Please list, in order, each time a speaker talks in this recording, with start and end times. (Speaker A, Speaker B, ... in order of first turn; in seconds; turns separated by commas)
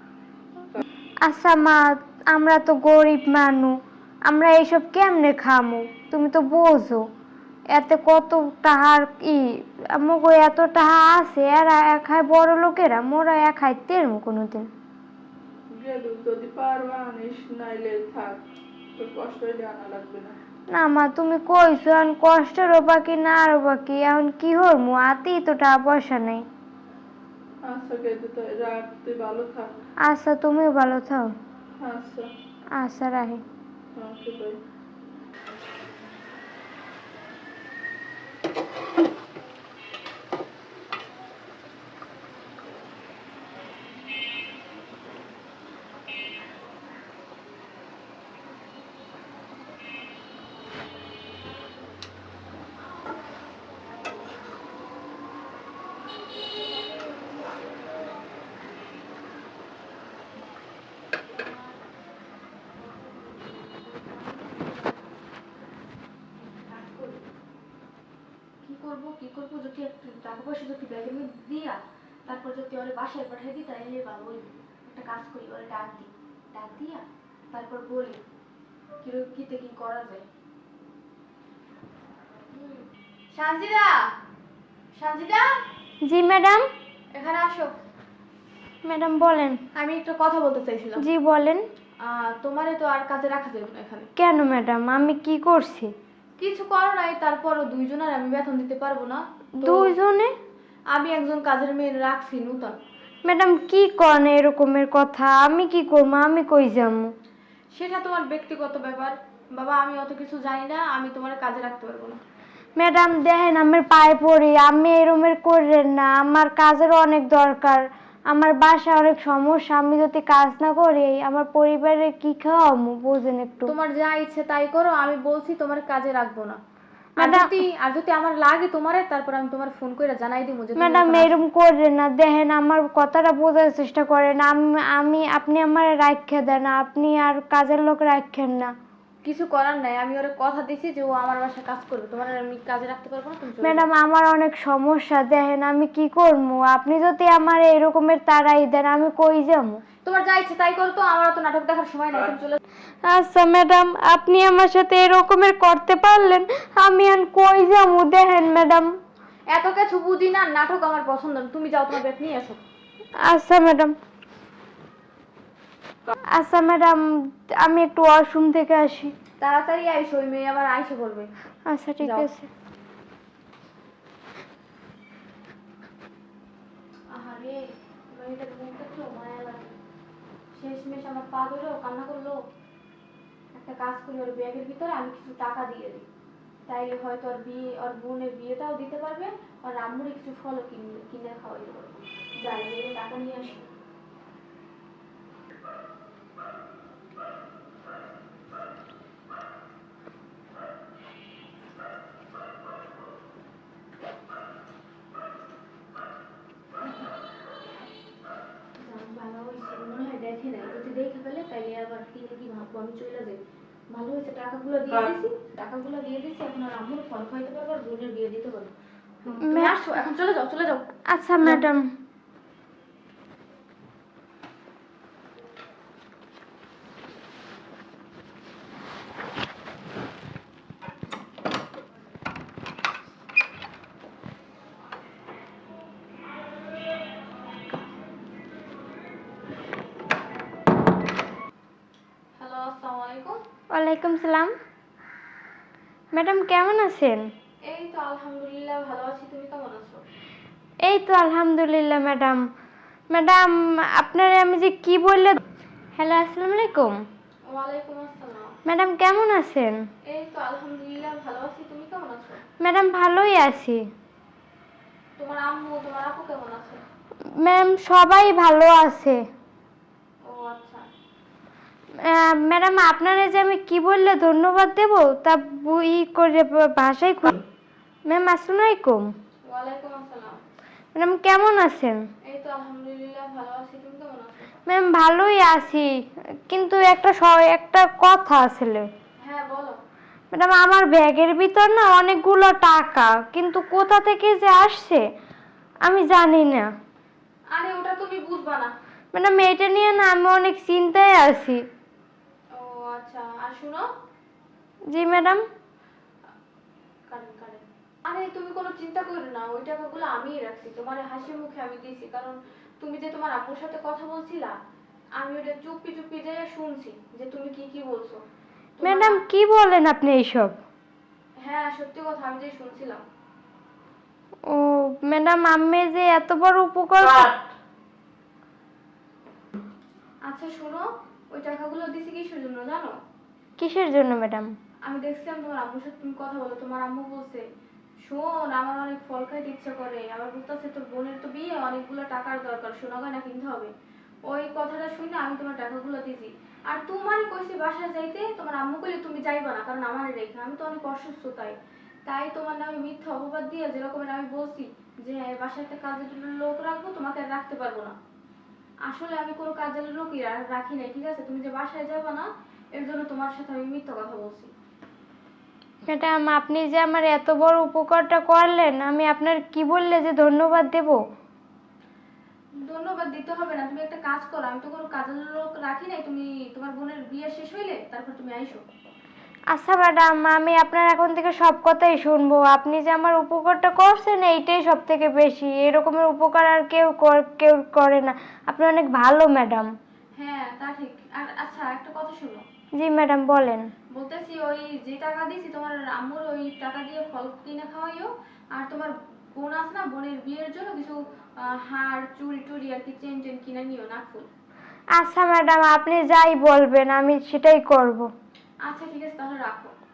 Speaker A: 1.2-3.7, Speaker A: 4.2-7.0, Speaker A: 7.7-14.7, Speaker B: 15.8-18.4, Speaker B: 19.0-20.3, Speaker A: 20.7-26.4, Speaker B: 27.6-29.7, Speaker A: 30.0-31.3, Speaker B: 31.8-32.3, Speaker A: 32.8-33.4, Speaker B: 34.0-34.6, Speaker C: 56.5-57.6, Speaker C: 61.2-61.8, Speaker C: 62.7-65.2, Speaker C: 66.4-67.2, Speaker C: 68.6-78.2, Speaker C: 79.0-80.2, Speaker C: 82.5-84.1, Speaker C: 84.9-85.6, Speaker A: 86.0-86.6, Speaker C: 87.1-87.8, Speaker A: 88.8-89.6, Speaker C: 89.7-91.0, Speaker A: 91.0-91.6, Speaker C: 92.0-94.1, Speaker A: 94.2-95.9, Speaker C: 96.4-100.0, Speaker A: 99.6-100.3, Speaker C: 100.9-102.8, Speaker A: 103.2-107.1, Speaker C: 107.7-112.2, Speaker A: 112.8-123.7, Speaker C: 123.7-126.6, Speaker A: 127.2-127.5, Speaker C: 127.2-131.3, Speaker A: 130.8-138.7, Speaker C: 139.2-143.9, Speaker A: 143.6-149.8, Speaker C: 150.0-152.6, Speaker A: 153.0-158.9, Speaker C: 159.5-162.6, Speaker A: 163.2-163.9, Speaker A: 166.3-167.0, Speaker A: 167.6-169.1, Speaker C: 169.4-171.3, Speaker A: 171.7-172.5, Speaker C: 172.0-172.3, Speaker C: 177.1-179.7, Speaker C: 180.5-182.4, Speaker C: 183.5-186.0, Speaker C: 186.7-193.6, Speaker C: 208.8-213.4, Speaker C: 213.9-218.7, Speaker C: 219.2-221.7, Speaker A: 219.3-219.8, Speaker A: 221.1-221.9, Speaker C: 242.4-243.4, Speaker A: 243.7-244.5, Speaker A: 246.1-247.3, Speaker C: 247.7-250.0, Speaker A: 250.8-252.4, Speaker A: 253.1-255.4, Speaker A: 255.9-257.0, Speaker C: 257.4-258.5, Speaker A: 258.6-259.8, Speaker C: 260.1-262.4, Speaker A: 262.6-263.8, Speaker C: 265.2-266.8, Speaker A: 267.4-269.2, Speaker C: 270.2-270.8, Speaker A: 272.0-277.4, Speaker A: 278.1-279.1, Speaker C: 279.4-280.4, Speaker A: 280.9-282.0, Speaker C: 282.3-284.5, Speaker A: 284.7-285.9, Speaker A: 286.5-288.9, Speaker C: 289.2-289.8, Speaker A: 290.3-295.0, Speaker A: 295.8-296.7, Speaker C: 297.5-298.7, Speaker A: 299.1-301.6, Speaker C: 302.5-303.8, Speaker A: 304.9-305.4, Speaker C: 307.1-314.5, Speaker C: 315.2-318.2, Speaker C: 318.8-319.2, Speaker A: 318.8-320.5, Speaker C: 321.4-323.0, Speaker A: 324.5-327.3, Speaker C: 330.2-332.9, Speaker A: 333.6-334.5, Speaker C: 334.9-337.4, Speaker C: 338.0-343.7, Speaker C: 344.2-357.9, Speaker C: 358.8-364.5, Speaker A: 365.9-371.0, Speaker C: 372.6-378.6, Speaker A: 379.5-389.7, Speaker C: 390.1-392.4, Speaker A: 392.8-393.7, Speaker C: 393.9-404.3, Speaker A: 404.9-408.1, Speaker C: 408.6-409.7